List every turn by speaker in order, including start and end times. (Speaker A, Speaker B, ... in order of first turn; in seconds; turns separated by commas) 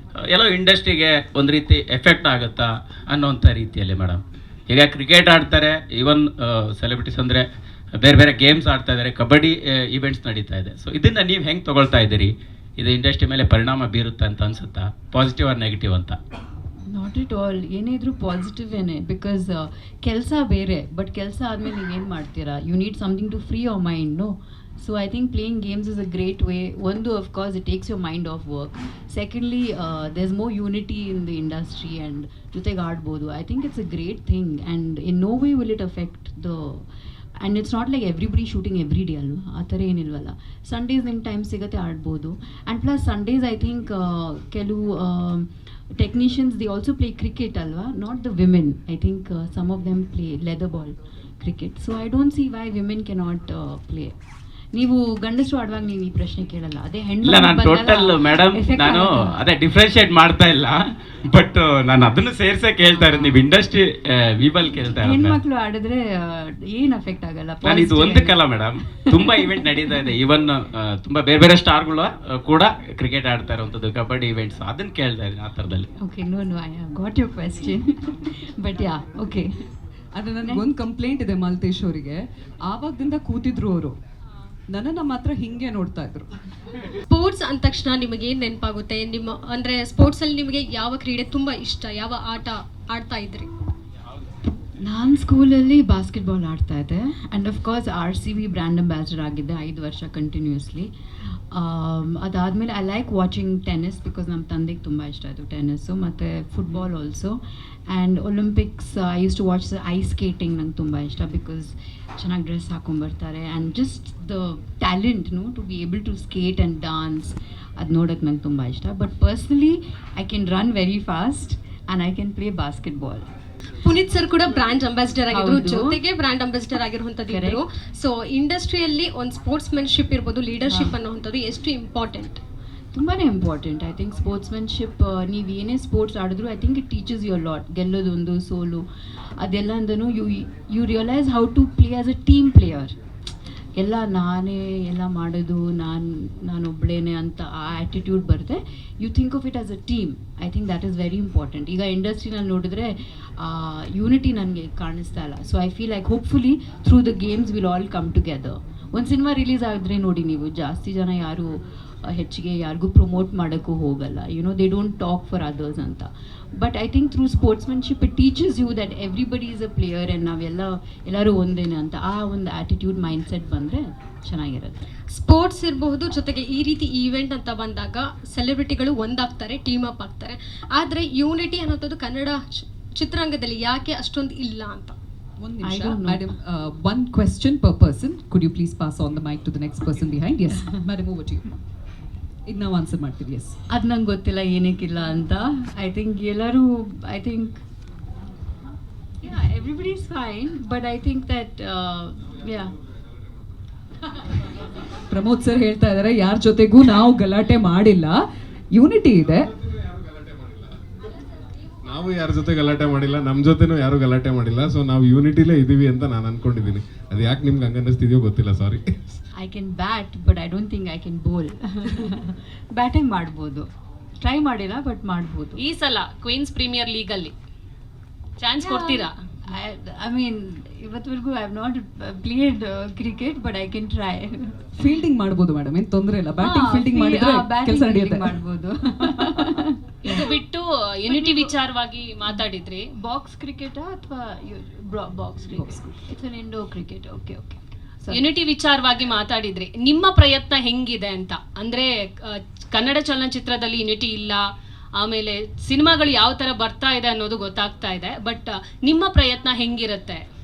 Speaker A: 0.2-16.2, Speaker B: 16.9-36.9, Speaker B: 37.4-54.1, Speaker B: 54.8-59.4, Speaker A: 57.2-65.4, Speaker B: 63.0-63.4, Speaker B: 65.0-69.7, Speaker A: 67.6-75.9, Speaker B: 76.0-79.5, Speaker C: 80.2-84.0, Speaker C: 84.7-86.3, Speaker D: 87.1-93.5, Speaker B: 94.8-100.9, Speaker B: 101.5-123.3, Speaker D: 123.8-132.4, Speaker B: 125.3-126.0, Speaker B: 127.3-127.6, Speaker B: 130.7-131.0, Speaker B: 132.9-138.8, Speaker B: 139.4-142.9, Speaker B: 143.8-174.9, Speaker D: 175.1-184.9, Speaker C: 185.4-191.5, Speaker B: 185.6-186.3, Speaker C: 192.5-193.6, Speaker B: 193.7-197.6, Speaker B: 199.2-202.7, Speaker C: 205.1-208.2, Speaker C: 208.7-209.5, Speaker E: 209.6-210.8, Speaker E: 211.8-219.2, Speaker B: 219.4-223.7, Speaker B: 224.2-225.6, Speaker F: 225.6-227.3, Speaker F: 228.4-229.1, Speaker B: 228.6-234.6, Speaker C: 234.8-238.3, Speaker B: 236.4-240.4, Speaker F: 240.1-242.9, Speaker B: 241.1-241.5, Speaker B: 243.0-248.2, Speaker C: 245.5-245.9, Speaker F: 248.1-254.4, Speaker F: 255.0-260.2